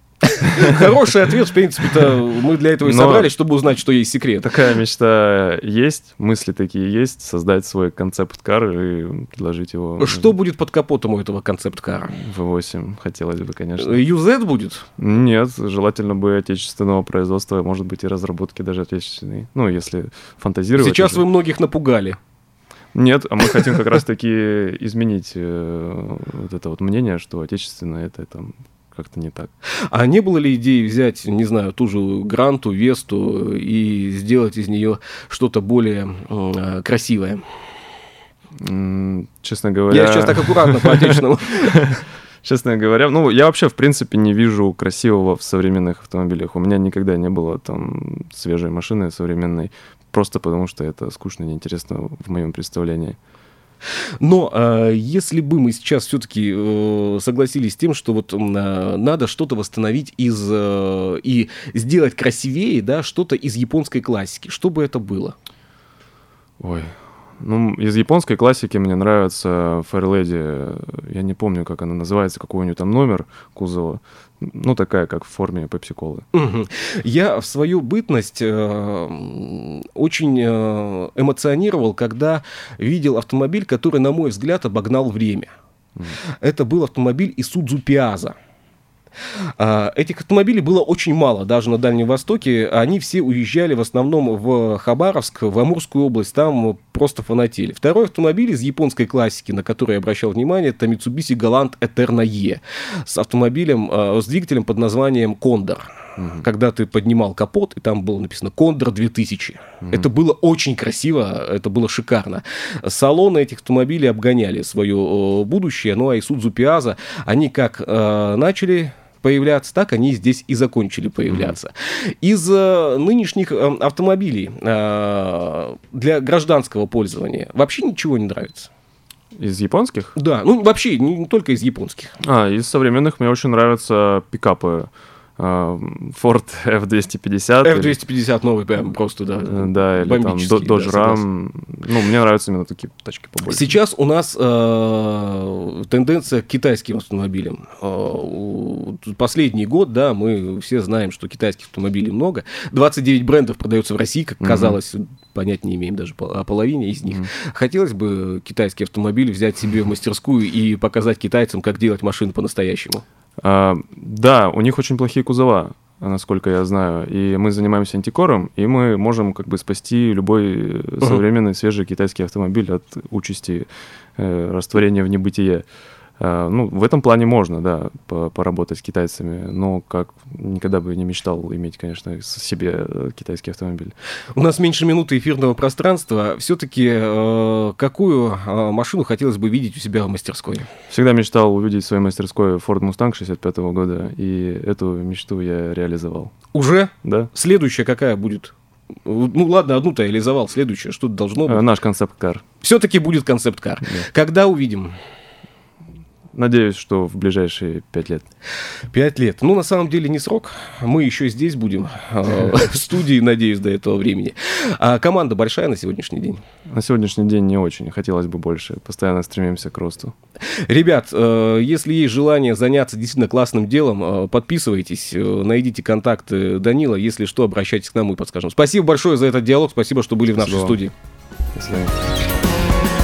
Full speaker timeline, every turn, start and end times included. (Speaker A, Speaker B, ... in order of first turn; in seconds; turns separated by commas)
Speaker A: 0.3-4.5, Speaker B: 0.4-0.9, Speaker B: 2.8-3.3, Speaker B: 4.4-10.3, Speaker A: 10.0-12.2, Speaker B: 12.1-14.0, Speaker A: 13.8-14.9, Speaker B: 15.0-21.2, Speaker A: 20.8-22.2, Speaker B: 22.9-29.5, Speaker A: 29.9-37.5, Speaker B: 38.6-53.2, Speaker A: 39.9-42.0, Speaker A: 54.2-65.4, Speaker B: 66.6-76.3, Speaker A: 76.3-85.5, Speaker A: 86.3-88.4, Speaker A: 89.6-128.7, Speaker B: 106.2-106.5, Speaker B: 109.8-110.1, Speaker B: 129.4-130.1, Speaker A: 130.2-132.2, Speaker B: 132.2-138.0, Speaker A: 137.6-141.2, Speaker B: 139.5-143.8, Speaker A: 143.5-163.0, Speaker B: 154.4-154.8, Speaker B: 163.4-175.7, Speaker B: 176.2-183.9, Speaker A: 184.3-190.7, Speaker B: 190.9-196.3, Speaker A: 196.5-198.5, Speaker B: 197.0-197.3, Speaker A: 199.1-201.7, Speaker B: 201.5-202.4, Speaker A: 202.6-205.0, Speaker B: 206.3-208.3, Speaker A: 208.9-216.4, Speaker B: 216.7-220.2, Speaker A: 220.4-230.9, Speaker B: 230.4-230.8, Speaker B: 231.6-232.0